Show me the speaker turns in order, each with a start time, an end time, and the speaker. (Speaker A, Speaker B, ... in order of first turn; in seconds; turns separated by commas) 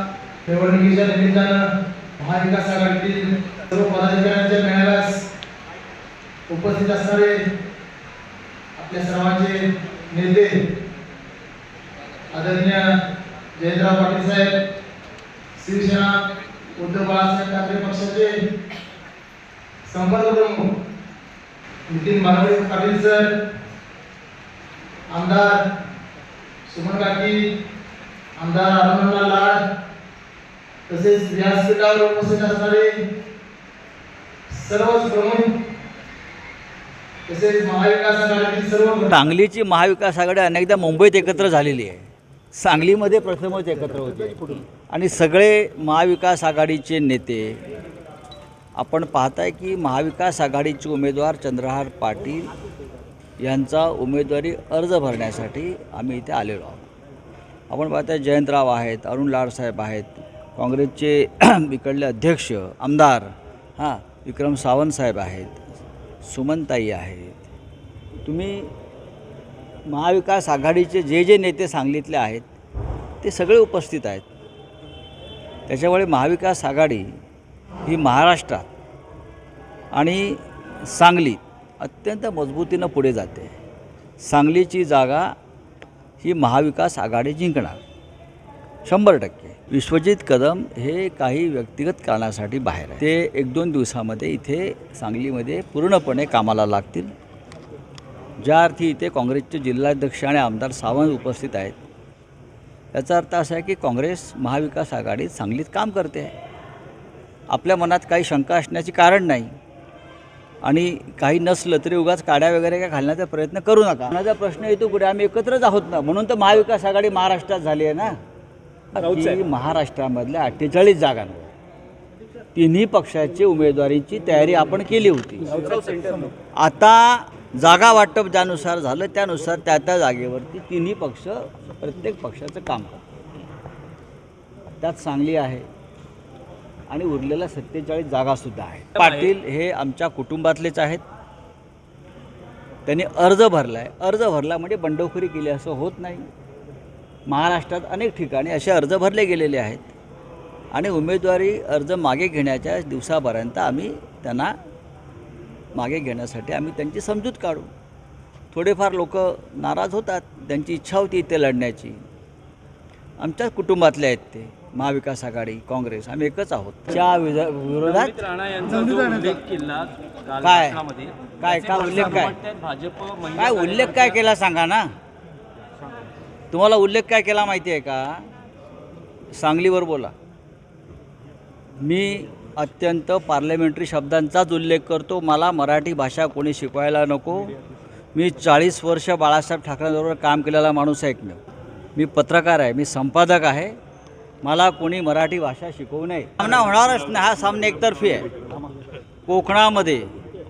Speaker A: 0.5-1.6, Speaker A: 2.2-5.1, Speaker A: 6.5-7.4, Speaker A: 8.8-9.6, Speaker A: 10.1-10.5, Speaker A: 12.3-12.8, Speaker A: 13.6-14.5, Speaker A: 15.6-16.1, Speaker A: 16.8-18.3, Speaker A: 19.9-20.6, Speaker A: 21.9-23.3, Speaker A: 25.1-25.6, Speaker A: 26.7-27.4, Speaker A: 28.4-29.6, Speaker A: 30.9-32.9, Speaker A: 34.5-35.5, Speaker A: 37.3-39.1, Speaker B: 39.1-47.6, Speaker B: 48.8-52.5, Speaker B: 53.4-56.9, Speaker B: 57.7-65.6, Speaker B: 66.2-67.5, Speaker B: 68.3-68.7, Speaker B: 69.9-72.5, Speaker B: 73.2-74.2, Speaker B: 75.7-77.1, Speaker B: 77.8-78.7, Speaker B: 79.9-83.5, Speaker B: 84.2-85.3, Speaker B: 86.2-87.8, Speaker B: 88.8-97.1, Speaker B: 98.4-101.8, Speaker B: 102.9-106.3, Speaker B: 107.5-109.5, Speaker B: 110.6-118.2, Speaker B: 118.9-121.5, Speaker B: 122.5-125.7, Speaker C: 125.6-126.3, Speaker B: 126.5-133.0, Speaker B: 134.8-135.7, Speaker B: 136.9-141.0, Speaker B: 142.9-146.3, Speaker B: 147.3-149.9, Speaker B: 150.7-154.5, Speaker B: 155.8-157.7, Speaker B: 158.5-162.0, Speaker B: 163.2-168.3, Speaker C: 168.3-169.9, Speaker B: 170.4-170.8, Speaker B: 171.4-172.4, Speaker C: 172.5-173.3, Speaker B: 173.3-174.9, Speaker B: 176.5-178.2, Speaker B: 179.3-180.1, Speaker B: 181.8-187.5, Speaker B: 188.1-191.4, Speaker B: 191.9-193.8, Speaker B: 194.4-198.3, Speaker B: 199.3-200.1